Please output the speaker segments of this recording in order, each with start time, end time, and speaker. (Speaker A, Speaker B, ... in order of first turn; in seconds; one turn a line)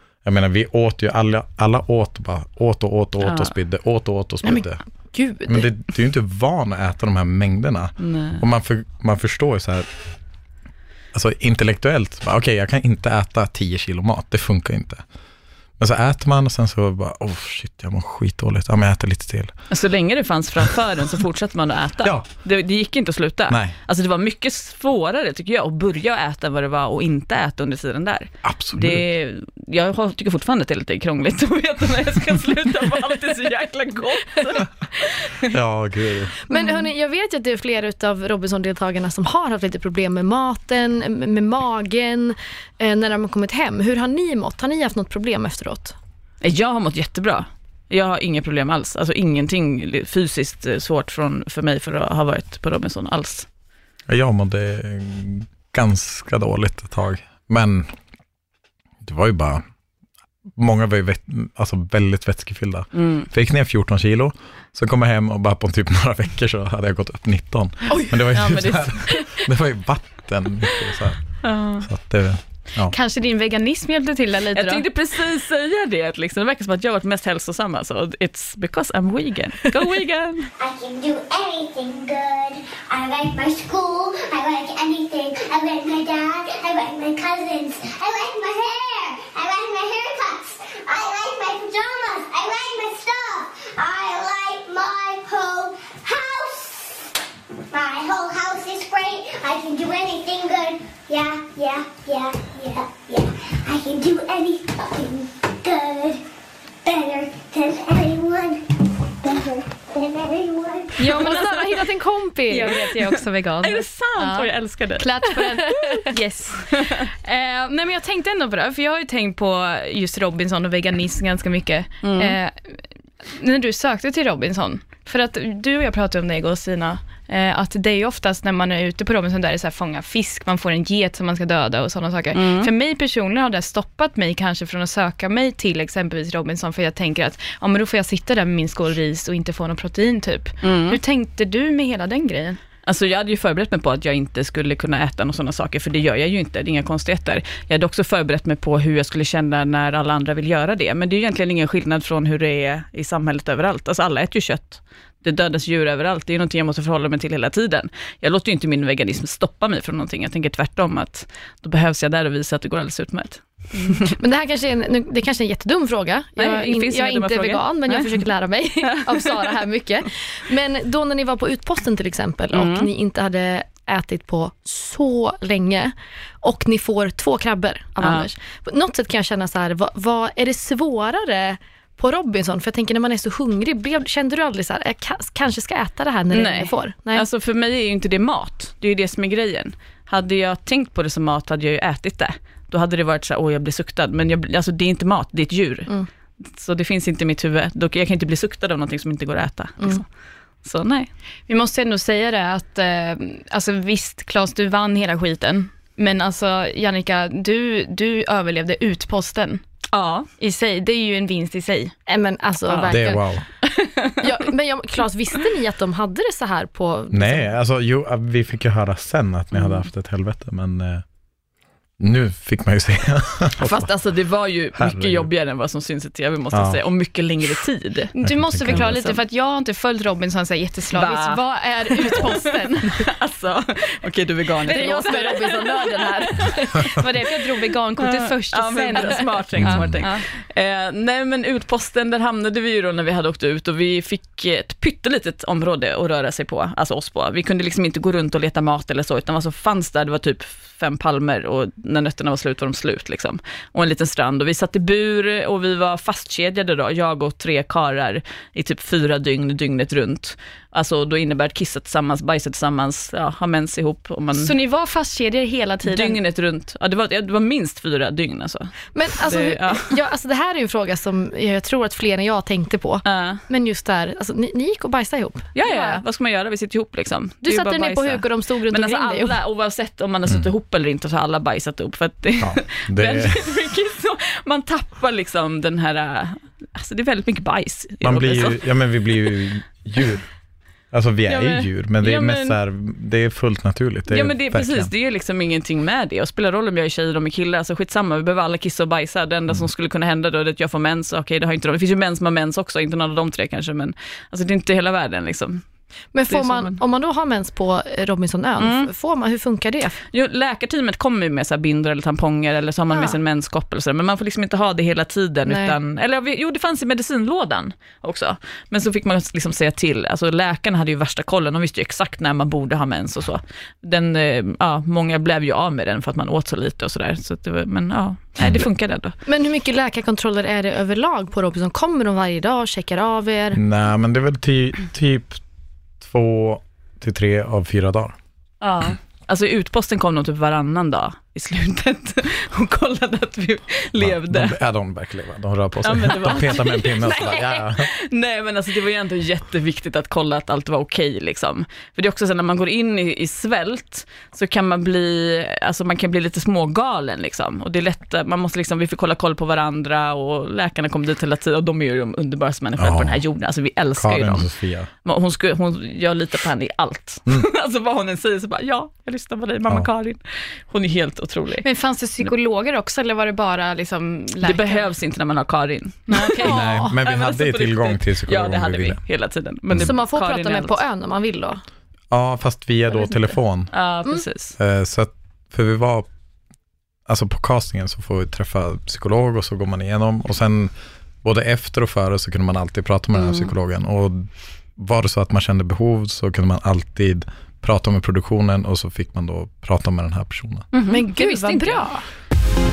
Speaker A: 0.2-4.8
Speaker B: 3.2-3.5
Speaker C: 4.5-5.7
Speaker A: 5.5-9.9
Speaker B: 8.0-8.4
Speaker A: 11.1-15.0
Speaker A: 15.8-19.5
Speaker B: 19.7-35.4
Speaker A: 23.5-23.7
Speaker A: 28.4-29.0
Speaker A: 35.4-36.4
Speaker C: 36.5-46.0
Speaker B: 46.4-53.5
Speaker A: 54.1-57.9
Speaker A: 59.0-59.6
Speaker A: 60.5-71.2
Speaker B: 62.9-63.3
Speaker B: 68.3-69.3
Speaker B: 71.4-71.8
Speaker A: 71.8-72.9
Speaker D: 72.9-74.8
Speaker B: 74.5-80.5
Speaker E: 80.6-97.1
Speaker E: 97.7-106.2
Speaker E: 106.8-111.0
Speaker C: 111.0-113.2
Speaker B: 111.0-111.7
Speaker D: 111.1-111.4
Speaker D: 112.5-113.8
Speaker B: 112.6-112.9
Speaker B: 113.6-115.2
Speaker D: 115.0-122.5
Speaker C: 115.2-116.1
Speaker B: 122.0-122.4
Speaker D: 123.3-142.6
Speaker B: 132.3-132.7
Speaker B: 140.6-141.0
Speaker B: 142.8-164.1
Speaker C: 164.1-187.2
Speaker B: 166.4-168.3
Speaker B: 168.8-169.5
Speaker B: 172.5-172.9
Speaker B: 178.0-178.3
Speaker B: 186.3-195.9
Speaker B: 196.4-200.0
Speaker B: 200.6-201.1
Speaker D: 201.5-209.6
Speaker B: 209.9-210.3
Speaker D: 210.4-211.9
Speaker C: 212.1-213.2
Speaker A: 212.9-213.4
Speaker B: 213.8-214.2
Speaker C: 214.2-217.5
Speaker A: 217.1-221.0
Speaker B: 219.5-219.8
Speaker A: 222.0-223.9
Speaker B: 223.6-228.1
Speaker A: 224.8-225.3
Speaker A: 226.5-226.8
Speaker D: 228.1-233.1
Speaker A: 228.2-229.0
Speaker B: 228.6-229.2
Speaker B: 230.9-231.4
Speaker B: 232.0-236.9
Speaker D: 234.6-240.2
Speaker B: 238.0-264.5
Speaker A: 239.6-240.0
Speaker D: 264.3-266.2
Speaker B: 265.8-269.9
Speaker C: 268.9-276.0
Speaker B: 273.0-273.4
Speaker B: 275.5-288.6
Speaker C: 277.4-279.4
Speaker A: 282.4-283.6
Speaker A: 288.0-290.2
Speaker A: 290.9-294.9
Speaker B: 291.3-292.6
Speaker B: 294.1-305.6
Speaker C: 306.1-309.9
Speaker B: 306.3-306.8
Speaker B: 308.6-308.9
Speaker B: 310.1-329.1
Speaker C: 312.9-313.2
Speaker C: 315.4-315.8
Speaker A: 328.4-328.6
Speaker C: 329.2-333.6
Speaker A: 333.5-335.4
Speaker A: 336.0-338.1
Speaker B: 338.6-344.6
Speaker A: 344.0-347.9
Speaker B: 345.8-364.5
Speaker A: 362.8-363.2
Speaker A: 363.9-364.9
Speaker B: 365.0-371.6
Speaker D: 371.6-374.9
Speaker B: 374.4-380.8
Speaker D: 376.1-376.7
Speaker A: 376.4-379.0
Speaker C: 379.7-381.6
Speaker A: 382.1-383.7
Speaker B: 383.7-384.6
Speaker A: 384.6-386.1
Speaker A: 387.1-390.7
Speaker A: 391.2-400.6
Speaker B: 393.2-393.4
Speaker B: 400.7-401.9
Speaker D: 400.9-401.8
Speaker C: 400.9-401.9